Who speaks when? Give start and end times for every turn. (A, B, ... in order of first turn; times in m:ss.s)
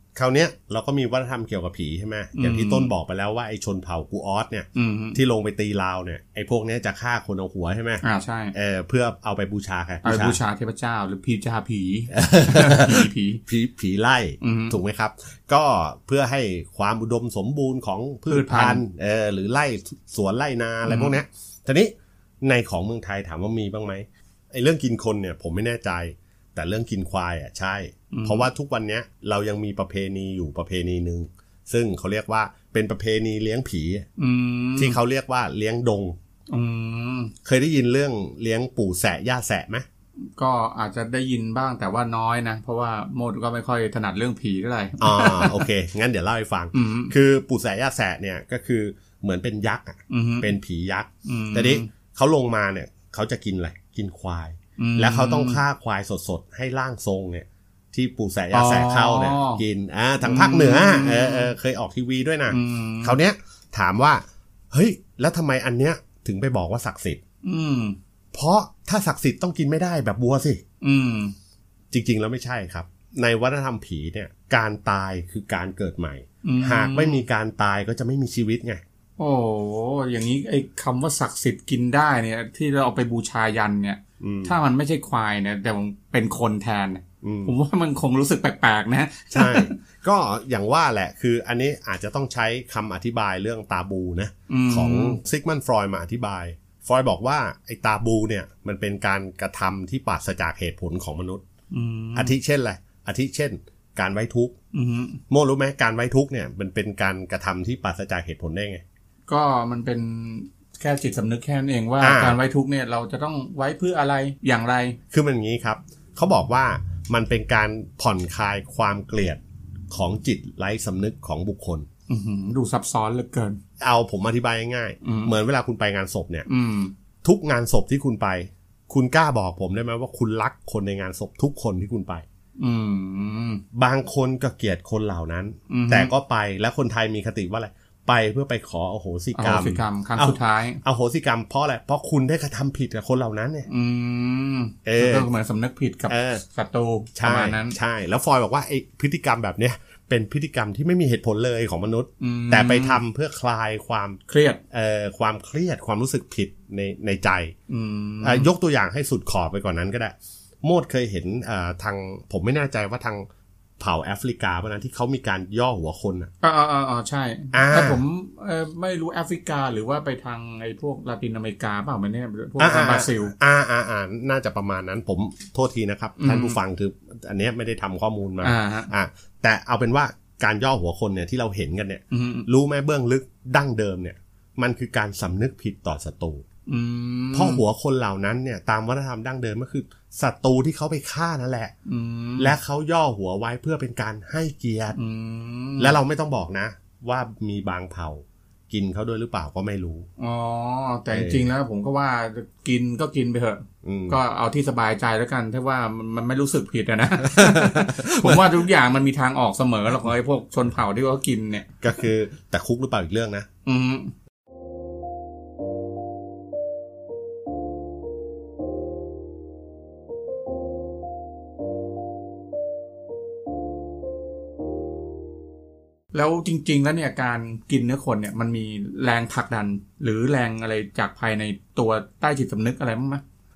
0:00.2-0:08.0 A
0:02.4-0:02.9 B
0:04.8-0:05.2 B
0:08.0-0:08.5 B
0:08.5-0:10.4 A
0:10.0-0:13.4 B
0:12.1-0:34.1 A
0:14.4-0:14.8 B
0:18.3-0:18.8 B
0:20.8-0:21.2 B
0:28.1-0:28.5 B
0:34.2-0:35.0 B
0:34.8-0:36.2 A
0:36.5-0:37.3 B
0:37.4-0:39.8 A
0:40.4-0:45.7 B
0:45.0-1:07.2 A
0:46.7-0:47.1 B
0:50.1-0:50.5 B
0:51.2-0:51.9 B
0:54.8-0:55.6 B
0:58.5-0:59.6 B
1:00.2-1:01.5 B
1:02.5-1:03.2 B
1:07.4-1:08.0 B
1:08.3-1:10.6 A
1:10.8-1:11.4 B
1:11.9-1:18.8 A
1:16.4-1:17.2 B
1:19.2-1:29.8 B
1:24.2-1:24.6 A
1:27.2-1:27.5 A
1:29.3-1:41.4 A
1:34.5-1:35.2 B
1:41.7-1:42.3 B
1:42.2-1:44.6 A
1:44.7-1:45.2 B
1:45.3-1:48.8 A
1:49.3-1:55.0 B
1:52.0-1:52.4 A
1:55.1-1:59.4 A
1:59.9-2:01.9 A
2:02.1-2:03.6 B
2:03.8-2:06.5 A
2:05.0-2:05.3 B
2:06.5-2:06.9 B
2:07.2-2:12.2 A
2:12.6-2:13.6 B
2:13.7-2:23.7 A
2:15.7-2:16.1 B
2:19.4-2:20.8 B
2:23.7-2:27.8 B
2:24.8-2:25.3 A
2:26.1-2:26.4 A
2:27.2-2:34.2 A
2:32.2-2:33.0 B
2:34.3-2:34.6 B
2:34.7-2:37.6 A
2:37.7-2:38.5 B
2:38.2-2:43.3 A
2:43.8-2:46.3 A
2:46.4-2:53.3 B
2:47.5-2:48.0 A
2:52.6-3:06.4 A
2:56.2-2:56.6 B
2:58.4-2:58.9 B
3:02.1-3:02.5 B
3:06.7-3:07.6 B
3:07.3-3:11.7 A
3:11.9-3:12.6 B
3:12.4-3:15.0 A
3:15.0-3:16.0 B
3:15.8-3:20.1 A
3:20.2-3:31.8 B
3:21.1-3:21.5 A
3:23.8-3:24.2 A
3:27.2-3:28.6 A
3:31.8-3:33.5 A
3:33.6-3:34.1 B
3:46.1-3:53.2 B